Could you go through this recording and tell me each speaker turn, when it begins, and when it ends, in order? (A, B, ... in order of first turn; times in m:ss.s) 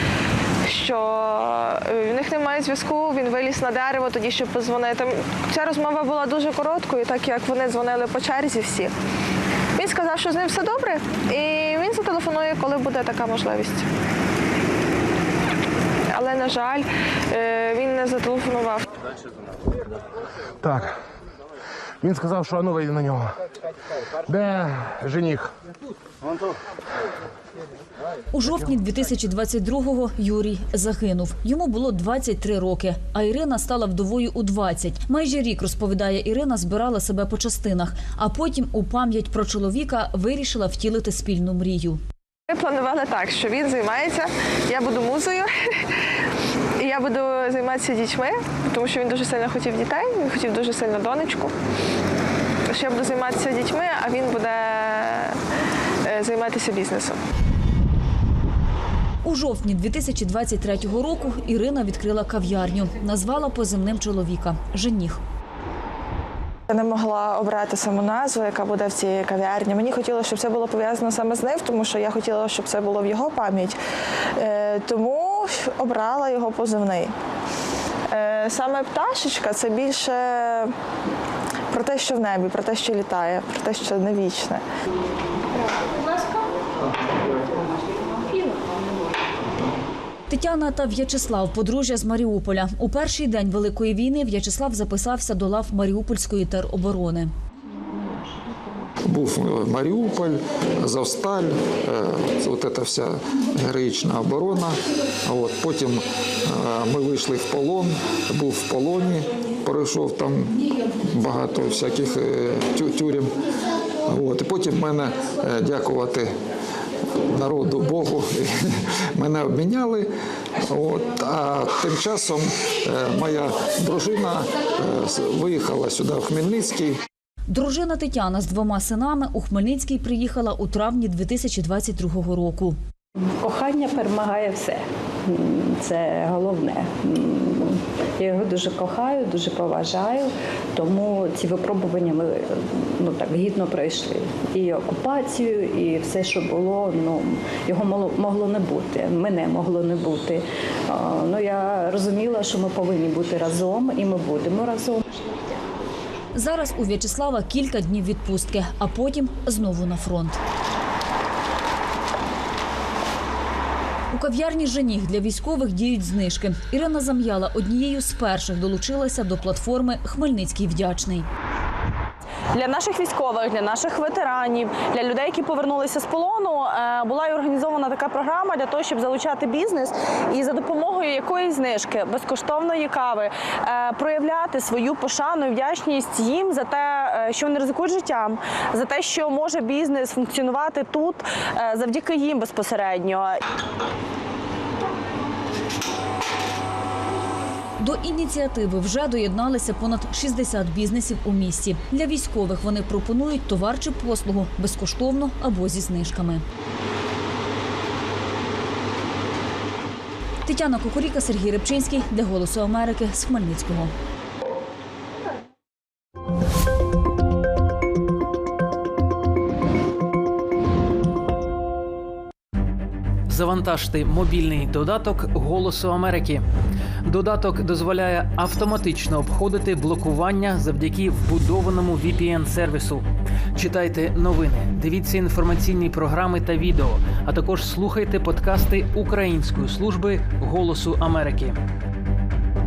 0:00.6-0:08.9 A
0:09.8-0:13.9 A
0:16.1-0:18.8 A
0:20.6-0:21.0 B
0:22.0-0:23.3 B
0:24.3-0:25.5 B
0:28.3-0:42.0 C
0:42.5-0:45.5 A
0:46.8-0:51.5 A
0:52.7-0:55.4 A
0:56.0-0:57.2 A
0:59.2-1:05.2 C
1:06.7-1:13.8 A
1:14.4-1:17.1 A
1:18.1-1:20.7 A
1:21.7-1:24.6 A
1:30.3-1:37.3 C
1:39.0-1:50.5 D
1:51.0-1:53.4 D
1:54.0-1:56.3 D
1:57.3-2:00.1 D
2:00.7-2:07.0 D
2:07.5-2:12.8 C
2:13.2-2:35.4 E
2:36.3-2:40.4 C
2:44.1-2:51.2 C
2:52.5-3:13.4 F
3:17.8-3:26.4 C
3:30.4-3:33.9 C
3:43.3-3:46.4 G
3:47.0-4:01.6 G